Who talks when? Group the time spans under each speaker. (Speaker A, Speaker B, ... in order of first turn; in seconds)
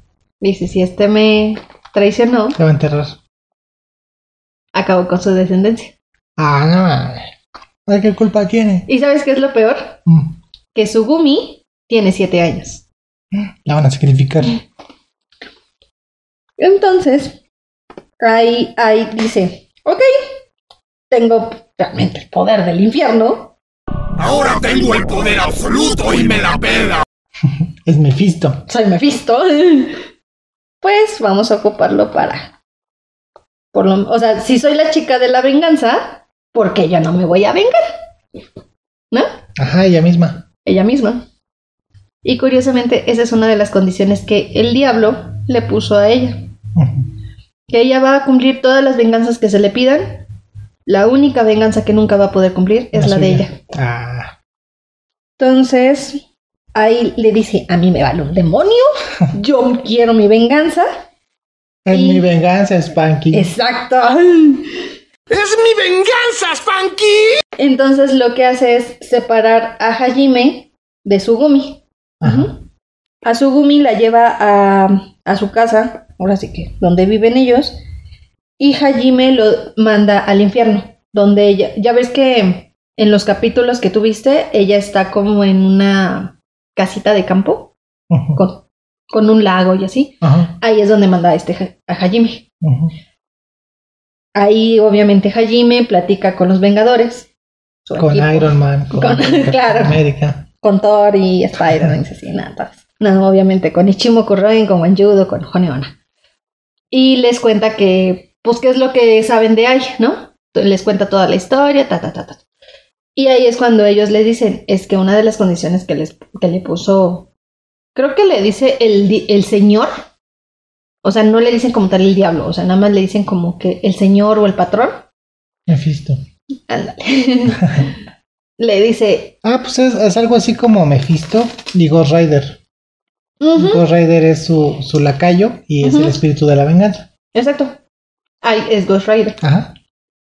Speaker A: 0.4-2.6, 4.7-5.9, 8.9-10.0, 10.7-12.8, 16.6-17.4, 18.2-20.3, 21.1-23.5, 28.7-30.0, 30.8-32.5, 33.7-37.8, 40.6-41.2, 42.2-46.4, 47.7-50.2, 50.9-53.5, 55.4-56.2, 56.7-60.9, 61.9-62.2, 63.3-64.7, 67.6-72.6, 73.2-77.8, 78.6-87.7, 88.3-92.4, 94.3-97.3, 97.8-100.0, 100.6-105.9, 106.9-112.4, 113.2-117.3, 117.9-120.0, 121.0-125.0, 126.7-127.9, 128.6-129.3, 133.4-133.8, 135.8-136.2, 137.3-137.8, 138.4-139.4
Speaker B: 2.5-3.2, 6.4-7.3, 7.9-8.9, 10.1-10.3, 13.3-14.6, 27.5-28.6, 39.6-40.4, 46.8-47.1, 52.9-54.3, 61.8-63.5, 72.2-72.5, 88.1-88.4, 90.2-90.5, 92.6-92.9, 98.0-100.5, 125.7-126.2, 129.4-132.6, 133.5-137.1, 139.4-139.7
Speaker C: 24.2-27.0, 65.3-67.4